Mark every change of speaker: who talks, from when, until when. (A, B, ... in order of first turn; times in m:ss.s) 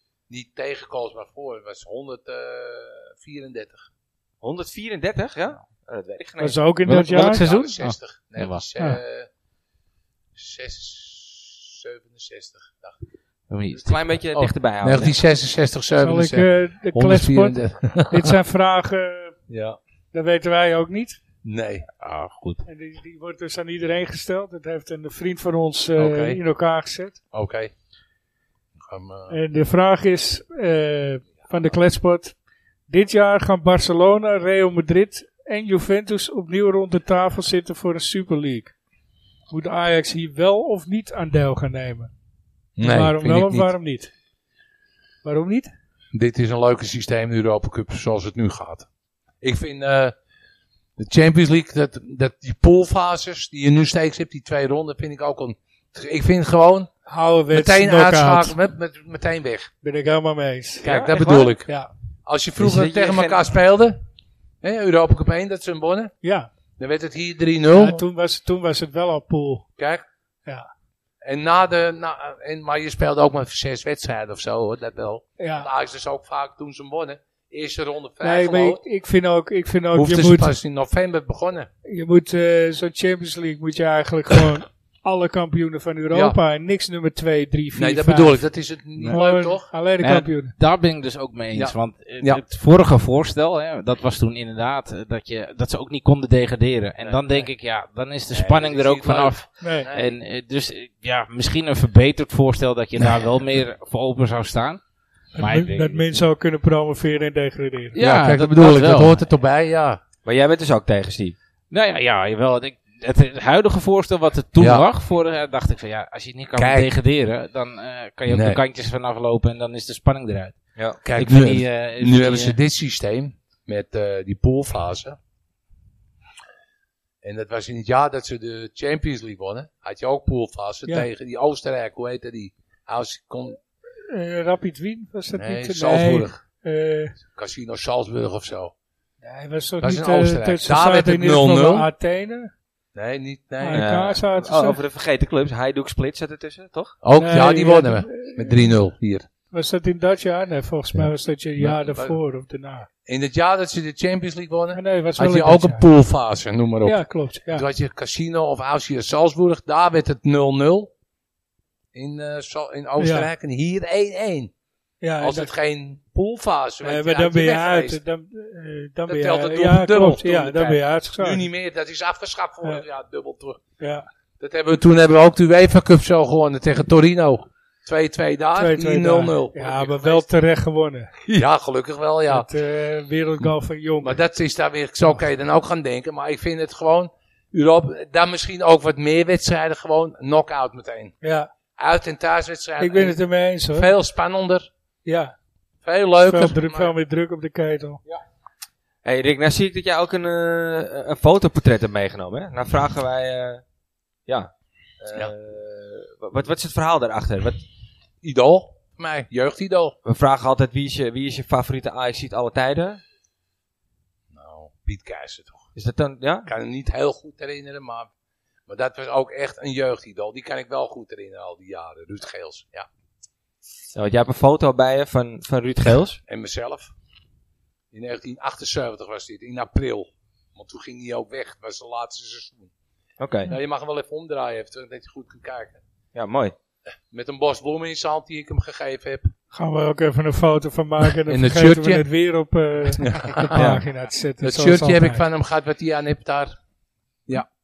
0:00.3-0:03.9 A
0:04.4-0:06.6 B
0:06.4-0:07.4 C
0:06.8-0:08.6 D
0:07.1-0:09.3 A
0:10.4-0:13.0 A
0:13.5-0:14.0 D
0:13.8-0:15.2 B
0:14.4-0:18.4 A
0:16.0-0:19.4 C
0:19.5-0:19.8 A
0:20.1-0:21.2 C
0:21.4-0:21.9 A
0:22.0-0:22.6 D
0:22.6-0:27.2 C
0:26.0-0:26.4 A
0:27.3-0:27.7 A
0:28.8-0:29.4 A
0:29.3-0:32.4 C
0:32.9-0:38.7 C
0:39.5-0:42.1 C
0:42.8-0:43.7 A
0:42.8-0:44.1 C
0:45.2-0:45.7 C
0:46.1-0:48.9 A
0:49.4-0:50.1 A
0:51.0-0:56.9 A
0:57.1-0:58.6 C
0:57.5-0:59.7 A
0:59.8-1:00.9 C
1:00.8-1:01.7 A
1:00.8-1:01.5 B
1:02.3-1:04.0 A
1:02.6-1:03.4 B
1:04.6-1:06.1 A
1:06.2-1:06.5 C
1:06.8-1:08.0 A
1:07.7-1:09.6 C
1:09.8-1:10.0 A
1:11.2-1:18.8 A
1:15.4-1:15.7 C
1:18.2-1:20.5 C
1:19.9-1:21.7 A
1:21.8-1:28.4 C
1:26.1-1:26.4 A
1:27.8-1:29.6 A
1:29.1-1:30.5 C
1:30.0-1:44.8 D
1:31.5-1:32.4 A
1:37.0-1:37.5 A
1:38.3-1:40.1 A
1:39.6-1:39.9 C
1:45.4-1:46.1 D
1:45.4-1:48.0 C
1:47.9-1:49.2 D
1:48.0-1:50.0 A
1:50.2-1:51.4 B
1:51.7-2:00.6 D
1:54.6-1:54.8 A
1:56.6-1:56.9 A
1:58.3-1:58.6 A
2:01.0-2:05.2 A
2:01.1-2:02.6 D
2:07.2-2:13.6 A
2:14.1-2:17.2 C
2:15.4-2:16.4 A
2:17.2-2:18.7 A
2:19.2-2:22.5 C
2:19.8-2:21.9 A
2:22.9-2:23.8 A
2:23.6-2:24.8 C
2:23.7-2:26.9 B
2:27.0-2:29.3 A
2:27.2-2:28.7 C
2:29.5-2:32.9 C
2:30.9-2:32.2 A
2:33.1-2:40.9 A
2:34.7-2:35.8 C
2:36.8-2:37.6 C
2:41.9-2:44.5 A
2:43.0-2:43.3 C
2:45.0-2:45.5 C
2:45.2-2:48.0 A
2:46.8-2:51.4 C
2:49.1-2:53.6 A
2:53.8-2:54.1 C
2:54.4-3:00.3 A
2:58.6-3:01.1 C
3:01.2-3:02.5 A
3:02.3-3:04.2 C
3:04.0-3:11.1 A
3:11.2-3:11.5 C
3:11.8-3:13.2 A
3:12.8-3:13.9 C
3:13.7-3:14.7 A
3:15.0-3:15.4 C
3:15.8-3:16.9 A
3:16.3-3:18.0 C
3:19.0-3:23.6 B
3:24.3-3:27.6 B
3:28.2-3:30.0 A
3:30.0-3:33.0 B
3:34.3-3:35.7 A
3:35.8-3:36.5 B
3:36.4-3:38.1 A
3:38.7-3:42.9 A
3:43.9-3:46.2 B
3:46.3-3:46.9 A
3:47.9-3:52.7 A
3:53.2-3:53.5 B
3:53.5-3:55.8 A
3:56.1-3:56.5 B
3:57.1-3:59.3 A
3:59.5-4:05.2 C
4:01.3-4:02.0 A
4:03.0-4:03.8 A
4:03.5-4:03.8 B
4:04.4-4:06.6 A